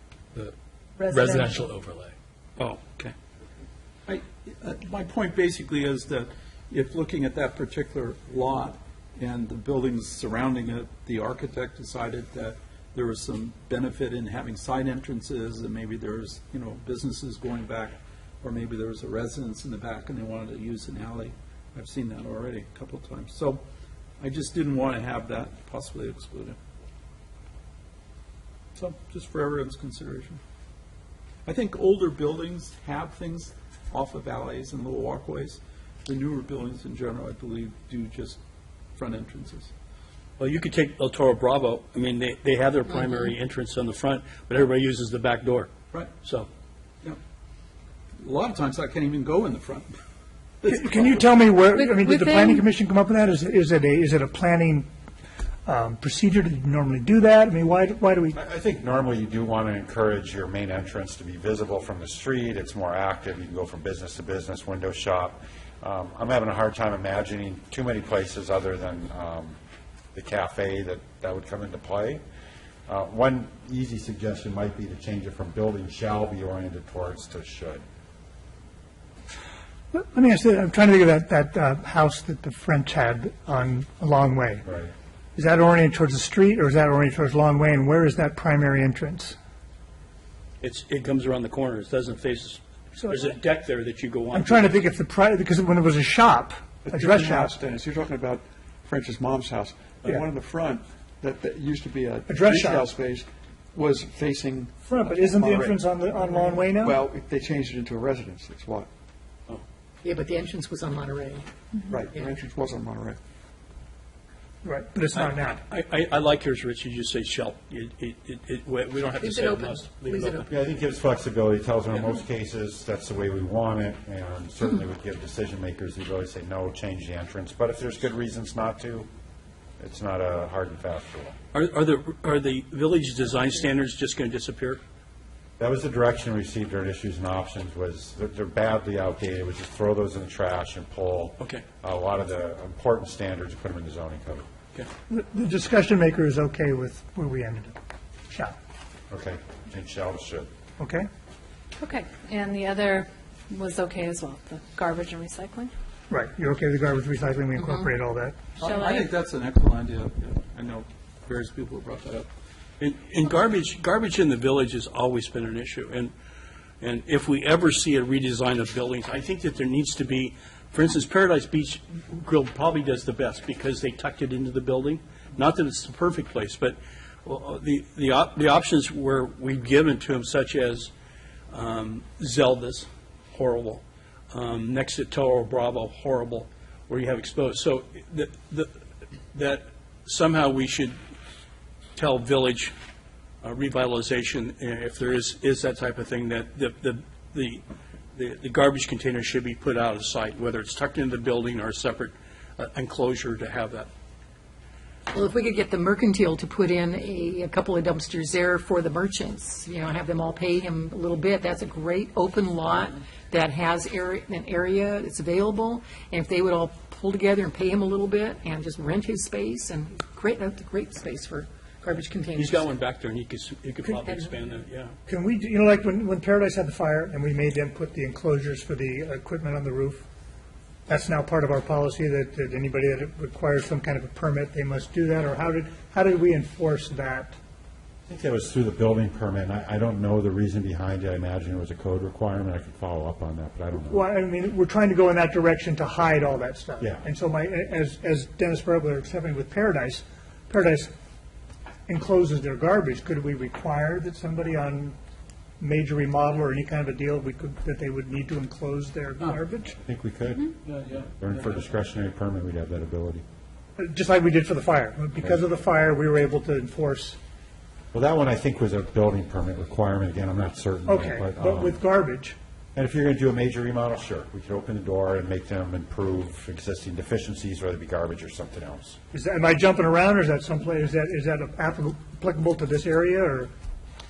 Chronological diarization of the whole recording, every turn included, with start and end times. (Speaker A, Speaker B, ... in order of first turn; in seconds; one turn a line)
Speaker A: 1.0-1.6
Speaker B: 4.1-23.6
Speaker B: 24.2-26.6
Speaker B: 28.8-30.4
Speaker B: 31.5-38.4
Speaker B: 39.0-39.7
Speaker C: 40.4-45.7
Speaker C: 46.2-46.5
Speaker B: 48.2-49.9
Speaker B: 50.6-51.2
Speaker D: 50.6-54.9
Speaker A: 51.8-52.6
Speaker D: 55.7-58.4
Speaker E: 58.3-69.6
Speaker E: 70.1-72.2
Speaker E: 72.9-77.8
Speaker D: 79.9-84.7
Speaker D: 85.3-89.3
Speaker C: 90.6-94.7
Speaker D: 93.0-93.2
Speaker D: 94.3-97.5
Speaker F: 96.9-108.9
Speaker D: 102.3-102.9
Speaker D: 104.9-107.0
Speaker G: 110.0-111.5
Speaker F: 111.9-113.2
Speaker D: 114.6-115.6
Speaker C: 115.2-120.5
Speaker G: 119.2-120.5
Speaker E: 120.5-129.1
Speaker E: 129.8-131.4
Speaker C: 131.5-134.8
Speaker E: 135.6-144.4
Speaker D: 145.1-147.7
Speaker E: 149.1-150.5
Speaker D: 150.8-151.1
Speaker A: 151.8-155.7
Speaker D: 156.1-158.4
Speaker B: 158.6-162.3
Speaker A: 158.6-159.1
Speaker C: 162.8-166.1
Speaker C: 166.8-180.9
Speaker C: 181.5-188.8
Speaker C: 189.3-191.0
Speaker C: 192.0-192.7
Speaker C: 193.4-203.9
Speaker G: 205.1-222.7
Speaker C: 222.4-224.9
Speaker D: 225.1-230.0
Speaker D: 230.9-237.4
Speaker E: 238.1-244.1
Speaker D: 243.9-250.9
Speaker D: 251.9-255.0
Speaker D: 255.6-259.8
Speaker E: 259.8-263.2
Speaker B: 260.7-261.1
Speaker D: 263.8-267.2
Speaker E: 267.9-271.8
Speaker D: 270.9-272.4
Speaker E: 272.8-279.0
Speaker D: 279.1-283.5